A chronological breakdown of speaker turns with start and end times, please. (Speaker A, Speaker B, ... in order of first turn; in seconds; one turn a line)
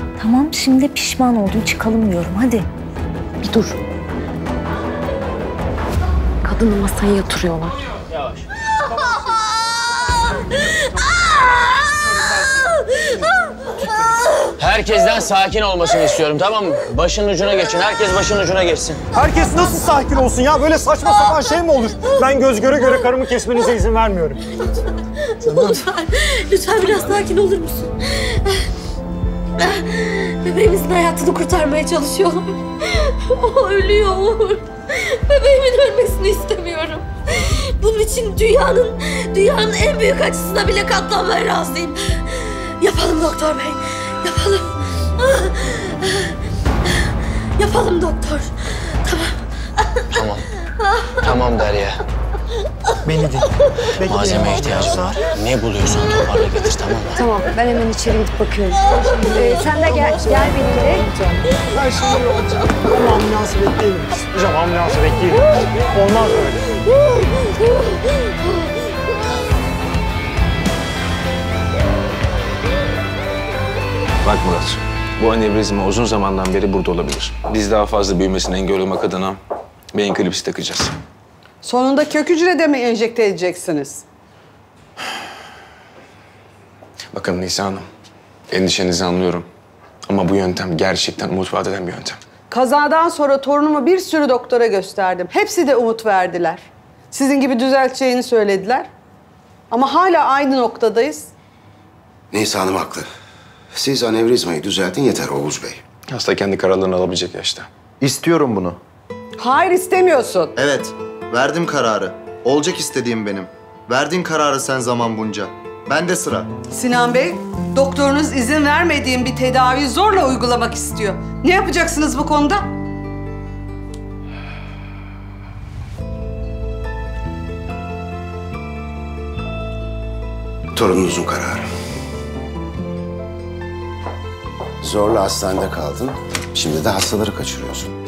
Speaker A: 0.2-2.7
Speaker B: 3.4-3.8
Speaker B: 6.4-7.8
Speaker C: 12.0-12.4
Speaker C: 13.8-14.2
Speaker D: 14.6-19.0
Speaker C: 19.1-24.4
Speaker E: 25.4-28.4
Speaker E: 29.6-46.3
Speaker E: 47.6-49.4
Speaker D: 50.1-50.5
Speaker D: 51.2-52.0
Speaker C: 53.0-55.2
Speaker D: 54.0-57.2
Speaker F: 57.1-61.1
Speaker B: 59.7-61.0
Speaker C: 61.7-66.6
Speaker G: 74.2-79.4
Speaker G: 79.9-80.9
Speaker H: 81.6-84.0
Speaker G: 87.1-87.9
Speaker G: 88.5-89.5
Speaker G: 90.1-92.2
Speaker H: 92.5-98.9
Speaker H: 99.7-101.3
Speaker I: 102.3-103.1
Speaker I: 103.7-105.8
Speaker G: 106.1-107.7
Speaker J: 108.0-108.8
Speaker H: 109.4-110.5
Speaker J: 110.6-116.5
Speaker H: 116.7-122.7
Speaker I: 130.7-131.7
Speaker I: 134.8-137.9